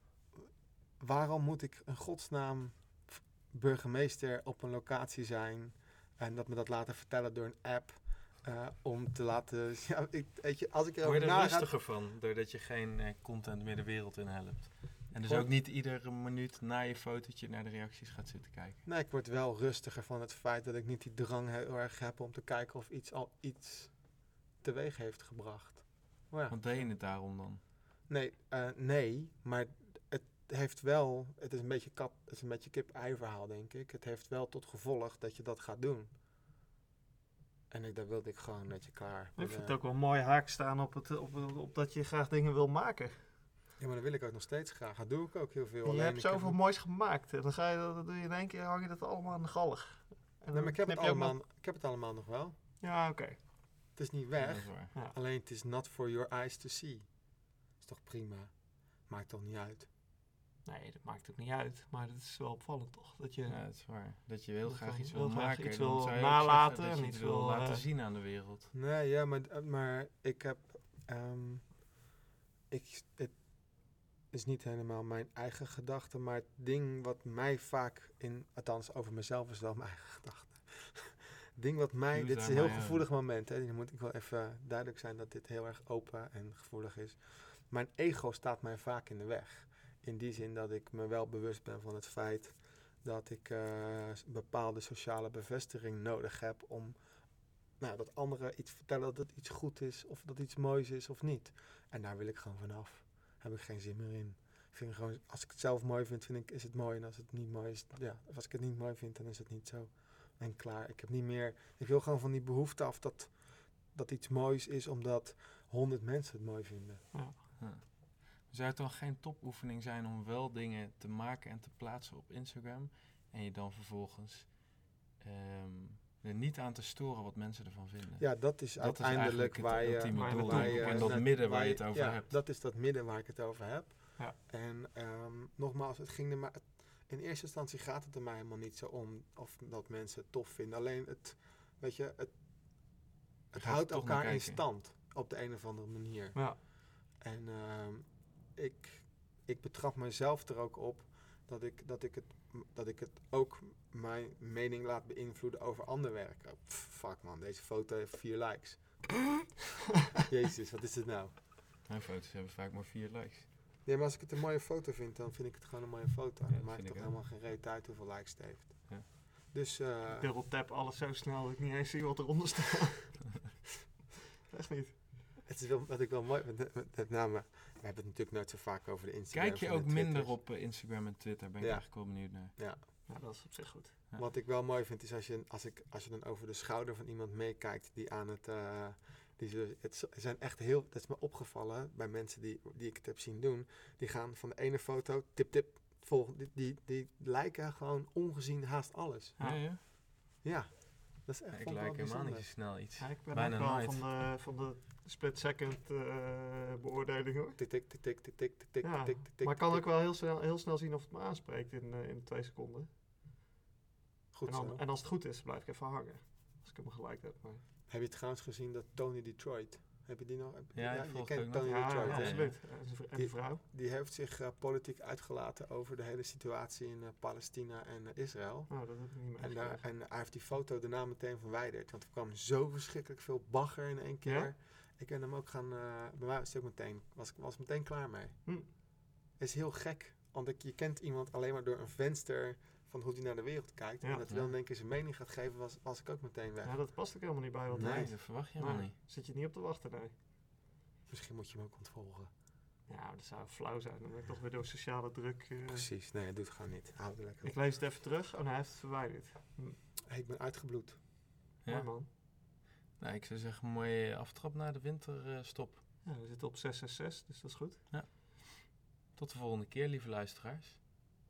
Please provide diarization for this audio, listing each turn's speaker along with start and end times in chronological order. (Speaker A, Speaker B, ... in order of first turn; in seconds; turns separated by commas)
Speaker A: 1.0-11.7, Speaker B: 11.0-18.8, Speaker A: 15.2-15.5, Speaker A: 18.9-23.9, Speaker A: 24.6-26.8, Speaker B: 26.5-27.6, Speaker A: 28.1-36.1, Speaker A: 37.7-39.7, Speaker C: 39.4-43.2, Speaker A: 43.8-46.6, Speaker C: 45.9-51.4, Speaker A: 50.5-52.6, Speaker C: 52.8-53.4, Speaker A: 54.0-57.1, Speaker B: 54.4-54.9, Speaker A: 57.8-58.5, Speaker A: 59.1-59.9, Speaker C: 60.6-63.6, Speaker B: 63.5-68.7, Speaker C: 64.7-67.8, Speaker A: 68.7-71.7, Speaker A: 72.7-73.4, Speaker A: 74.3-97.0, Speaker B: 82.1-83.0, Speaker A: 97.8-117.0, Speaker C: 117.1-117.4, Speaker B: 117.6-132.3, Speaker A: 128.2-142.3, Speaker C: 130.1-131.2, Speaker A: 143.5-146.5, Speaker B: 143.6-144.6, Speaker A: 147.2-159.2, Speaker A: 160.3-161.3, Speaker B: 161.9-163.5, Speaker A: 163.8-170.3, Speaker B: 166.5-167.2, Speaker C: 170.1-173.4, Speaker C: 174.5-175.0, Speaker A: 175.4-180.4, Speaker B: 179.3-182.6, Speaker A: 181.6-182.8, Speaker C: 183.1-184.0, Speaker A: 184.2-199.4, Speaker C: 199.4-199.6, Speaker B: 199.4-199.8, Speaker A: 200.4-202.5, Speaker B: 201.5-204.1, Speaker C: 203.0-207.6, Speaker A: 207.6-209.9, Speaker C: 208.8-212.9, Speaker A: 214.3-214.8, Speaker C: 214.5-217.6, Speaker A: 217.9-222.5, Speaker B: 220.8-222.6, Speaker C: 221.6-223.6, Speaker A: 223.1-238.4, Speaker C: 228.7-229.8, Speaker C: 234.2-234.5, Speaker A: 239.4-246.8, Speaker C: 244.0-244.3, Speaker C: 246.6-250.1, Speaker A: 247.7-248.1, Speaker B: 247.8-248.9, Speaker A: 251.1-252.3, Speaker C: 252.9-255.9, Speaker A: 255.7-257.6, Speaker C: 257.4-259.8, Speaker A: 260.1-261.0, Speaker B: 261.6-262.0, Speaker C: 261.7-262.1, Speaker B: 263.0-265.8, Speaker C: 266.0-267.8, Speaker B: 267.9-270.8